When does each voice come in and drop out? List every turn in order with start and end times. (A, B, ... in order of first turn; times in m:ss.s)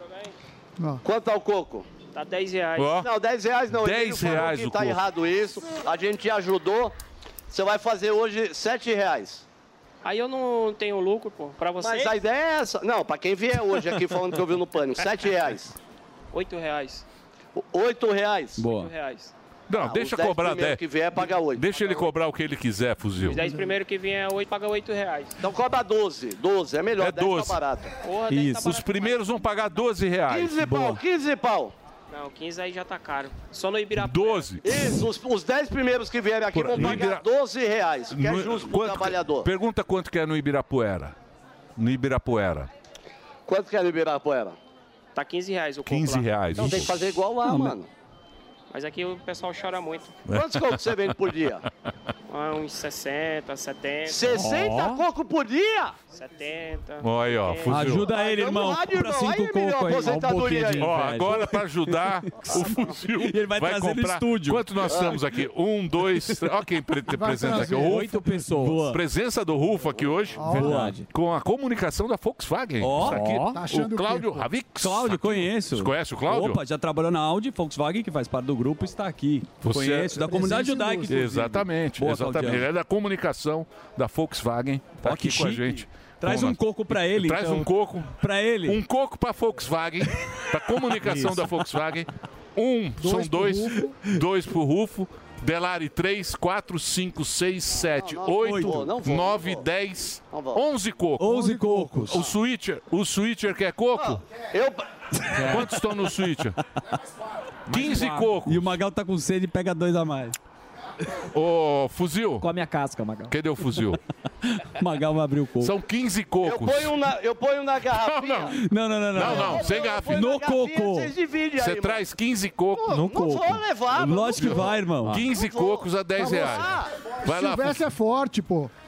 0:01.0-0:01.9 A
0:02.1-0:03.0 B
0:02.8-0:03.1 C
0:03.0-0:07.0 A
0:03.8-0:05.0 C
0:07.5-0:09.4 A
0:10.0-0:12.2 B
0:11.8-0:15.8 A
0:16.3-0:17.1 B
0:17.6-0:18.6 A
0:18.6-0:18.9 D
0:18.7-0:19.3 B
0:19.7-0:23.4 C
0:19.8-0:22.1 A
0:23.2-0:25.4 B
0:25.4-0:27.9 A
0:27.0-0:27.6 C
0:28.0-0:29.5 B
0:28.3-0:28.7 D
0:28.5-0:30.6 C
0:30.3-0:31.7 A
0:30.6-0:31.0 D
0:32.1-0:34.6 B
0:34.0-0:34.6 C
0:34.6-0:39.5 A
0:36.5-0:37.2 C
0:38.1-0:41.2 C
0:41.8-0:42.7 C
0:43.5-0:44.6 A
0:45.2-0:46.4 B
0:45.8-0:47.1 C
0:46.5-0:47.9 A
0:47.4-0:47.8 D
0:48.7-0:50.2 B
0:50.3-0:51.6 A
0:50.3-0:50.8 C
0:52.3-0:54.3 B
0:54.1-0:56.0 A
0:54.3-0:55.0 E
0:56.1-0:58.0 B
0:57.0-0:58.1 C
0:57.7-1:01.4 D
0:58.0-1:00.9 A
0:59.8-1:01.4 E
1:00.8-1:08.1 C
1:02.4-1:05.1 D
1:04.9-1:05.2 A
1:07.1-1:08.1 F
1:07.5-1:08.9 E
1:07.6-1:09.0 D
1:08.9-1:16.6 C
1:10.4-1:10.8 F
1:10.5-1:11.1 E
1:10.5-1:11.0 D
1:12.8-1:13.4 D
1:13.0-1:13.6 E
1:13.5-1:14.5 F
1:14.8-1:22.7 D
1:19.6-1:20.2 C
1:20.2-1:21.2 F
1:21.1-1:44.2 C
1:25.0-1:28.8 D
1:31.0-1:31.5 D
1:33.0-1:34.0 F
1:37.8-1:39.6 A
1:38.4-1:38.9 D
1:40.3-1:40.6 A
1:41.2-1:42.2 D
1:41.2-1:42.1 F
1:44.0-1:44.9 A
1:45.4-1:45.7 D
1:45.4-1:46.6 C
1:47.7-1:48.7 C
1:47.7-1:48.3 E
1:48.4-1:50.4 D
1:51.3-1:52.5 C
1:52.4-1:53.3 E
1:53.3-1:54.0 C
1:54.6-1:55.8 D
1:55.6-1:57.0 C
1:56.4-1:58.6 A
1:57.9-1:58.6 C
1:58.6-2:01.1 D
1:59.1-2:00.3 C
1:59.2-2:02.0 A
2:01.6-2:02.9 C
2:02.7-2:06.9 A
2:02.9-2:03.6 E
2:03.9-2:05.2 D
2:04.4-2:07.8 C
2:06.2-2:08.7 F